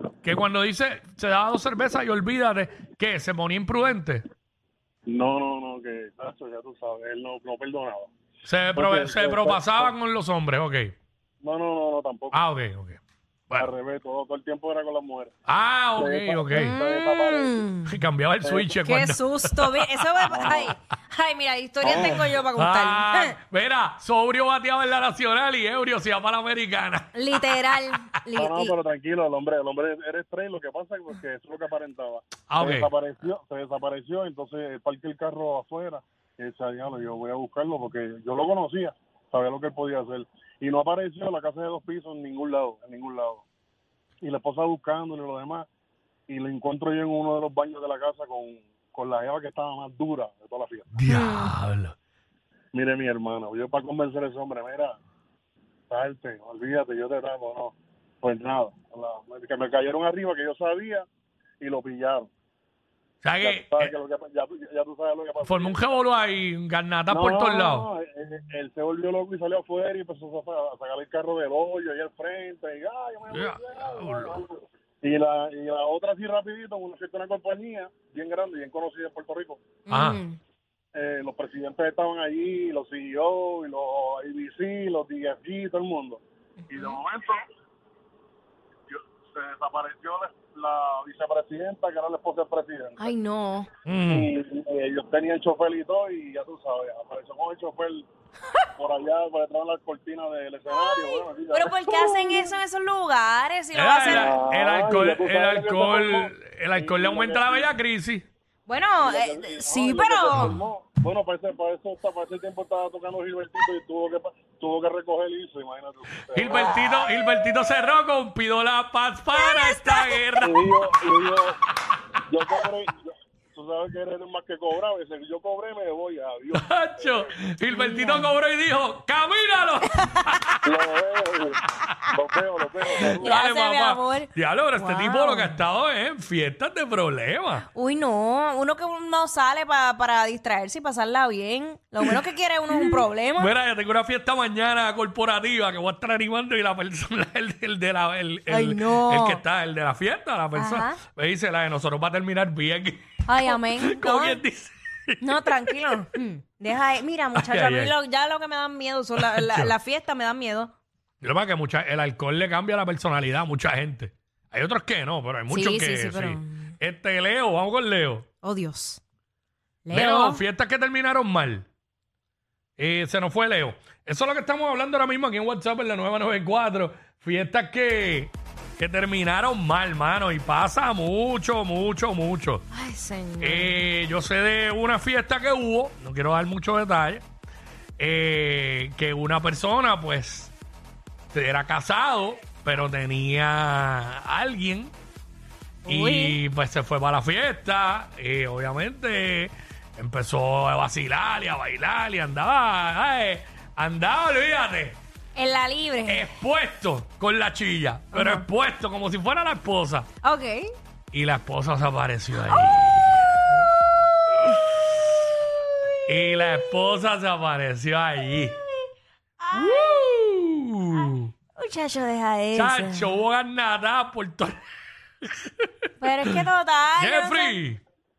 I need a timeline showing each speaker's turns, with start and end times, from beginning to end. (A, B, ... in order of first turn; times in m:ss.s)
0:00.2-0:04.2 A
0:05.0-0:08.1 B
0:08.4-0:10.9 A
0:08.7-0:10.0 B
0:11.4-0:12.4 B
0:12.3-0:13.7 A
0:13.6-0:15.3 B
0:15.5-0:16.8 A
0:15.9-0:17.6 B
0:16.5-0:18.0 C
0:17.8-0:20.7 A
0:18.4-0:18.8 B
0:18.8-0:23.4 C
0:20.3-0:20.6 B
0:21.8-0:22.2 B
0:21.9-0:27.6 A
0:27.1-0:28.7 C
0:28.4-0:43.4 B
0:32.5-0:32.9 A
0:44.2-0:45.7 B
0:46.3-0:51.0 B
0:50.9-0:51.9 A
0:51.1-0:51.6 C
0:52.7-0:55.0 B
0:55.9-1:01.1 B
1:01.6-1:02.3 B
1:03.2-1:03.9 A
1:03.4-1:06.0 B
1:05.4-1:07.9 A
1:07.1-1:19.6 B
1:13.3-1:14.4 A
1:19.8-1:20.4 C
1:19.9-1:20.2 A
1:20.9-1:27.4 B
1:26.6-1:27.0 C
1:28.9-1:33.1 B
1:33.0-1:33.7 C
1:33.9-1:34.3 A
1:34.0-1:38.1 B
1:38.8-1:42.6 B
1:40.7-1:44.4 C
1:43.7-1:48.2 A
1:44.1-1:47.7 B
1:48.6-1:50.4 C
1:49.0-1:57.0 B
1:50.3-1:50.6 A
1:56.3-2:00.9 A
1:59.3-2:00.4 C
2:00.4-2:01.6 B
2:02.3-2:07.3 B
2:06.5-2:10.7 A
2:07.7-2:08.4 C
2:09.8-2:10.3 C
2:10.6-2:13.4 B
2:12.9-2:15.6 C
2:12.9-2:17.6 A
2:17.6-2:23.5 C
2:22.7-2:35.8 A
2:28.5-2:29.5 C
2:30.5-2:31.0 C
2:33.2-2:34.4 C
2:35.2-2:40.7 C
2:37.3-2:38.0 A
2:39.1-2:39.7 A
2:41.2-2:48.3 A
2:45.5-2:46.7 C
2:48.4-2:49.0 C
2:49.8-2:50.4 C
2:49.9-2:51.7 A
2:52.8-3:02.6 A
3:02.7-3:03.8 C
3:03.4-3:07.2 A
3:08.0-3:10.5 A
3:11.3-3:14.9 A
3:15.8-3:16.4 C
3:15.9-3:25.0 A
3:25.4-3:26.3 C
3:26.0-3:30.1 A
3:28.1-3:28.4 C
3:30.2-3:30.7 C
3:31.1-3:33.6 A
3:32.3-3:32.9 C
3:34.3-3:34.6 A
3:36.1-3:36.5 C
3:36.1-3:38.5 A
3:38.2-3:38.8 C
3:39.4-3:40.2 C
3:39.5-3:41.3 A
3:41.6-3:43.2 C
3:42.5-3:44.6 A
3:45.2-3:46.4 A
3:46.0-3:47.6 C
3:47.0-3:47.8 A